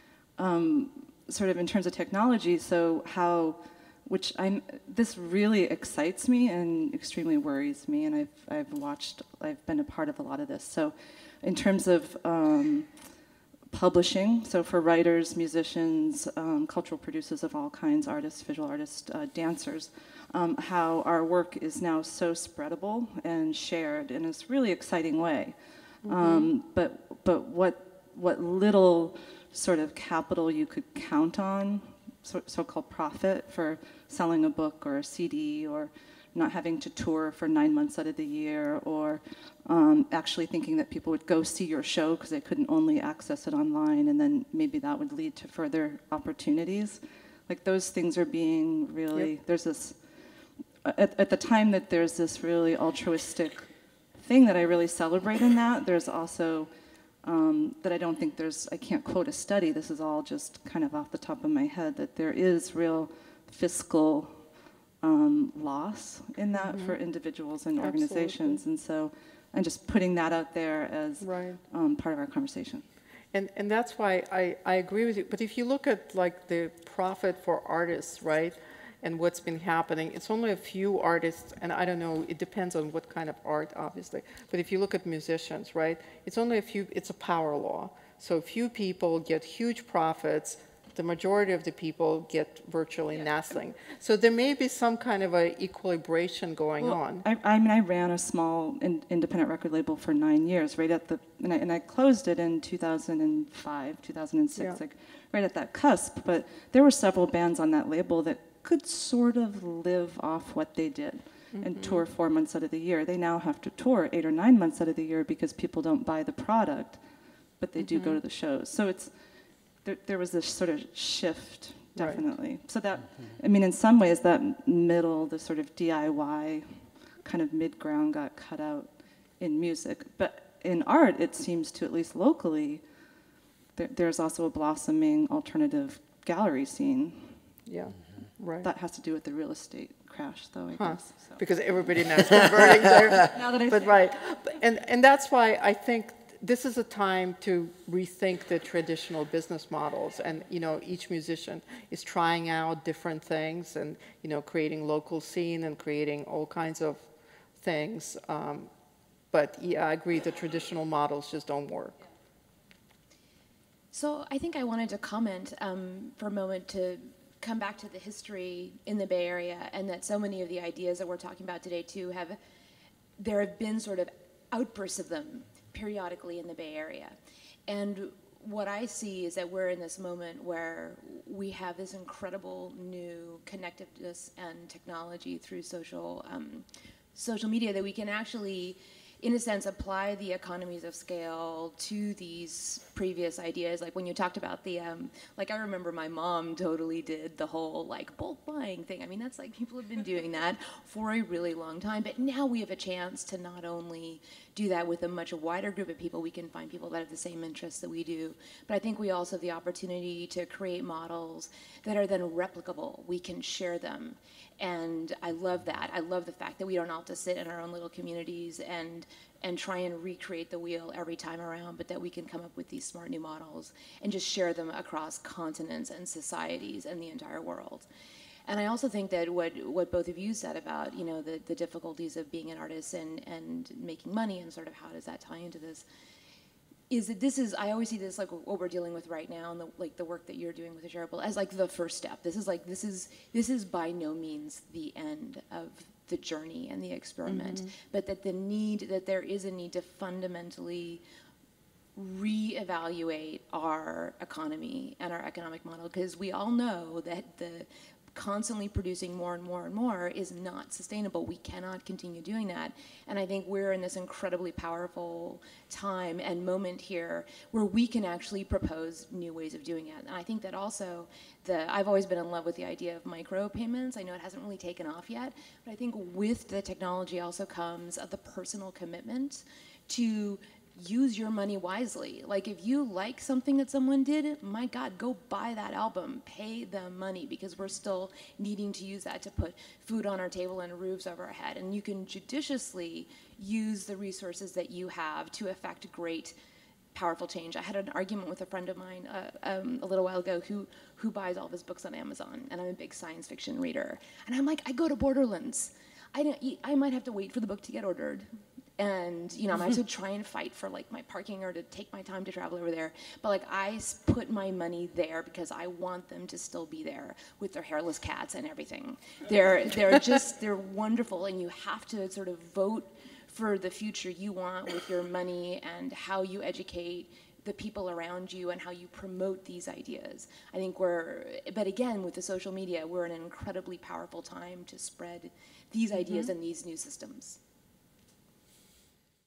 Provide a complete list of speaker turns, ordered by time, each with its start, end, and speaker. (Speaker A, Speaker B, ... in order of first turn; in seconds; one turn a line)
Speaker A: 0.4-12.9
Speaker A: 13.7-50.0
Speaker B: 26.0-26.5
Speaker A: 50.8-56.7
Speaker A: 57.2-64.5
Speaker A: 65.0-72.8
Speaker B: 66.5-67.0
Speaker B: 67.8-68.6
Speaker B: 71.2-71.6
Speaker B: 73.3-97.2
Speaker A: 96.8-117.0
Speaker B: 111.5-112.0
Speaker A: 117.6-119.1
Speaker B: 117.8-118.2
Speaker A: 119.8-132.8
Speaker B: 122.0-122.2
Speaker A: 133.8-137.4
Speaker B: 137.7-138.7
Speaker A: 138.6-141.4
Speaker B: 140.8-157.1
Speaker A: 143.3-144.1
Speaker B: 157.6-158.7
Speaker B: 159.3-161.9
Speaker C: 163.9-172.4
Speaker C: 173.2-177.2
Speaker C: 177.7-227.9
Speaker C: 228.5-235.8
Speaker C: 236.9-251.0
Speaker B: 247.2-247.7
Speaker C: 251.9-296.3
Speaker C: 296.9-337.4
Speaker B: 336.0-336.3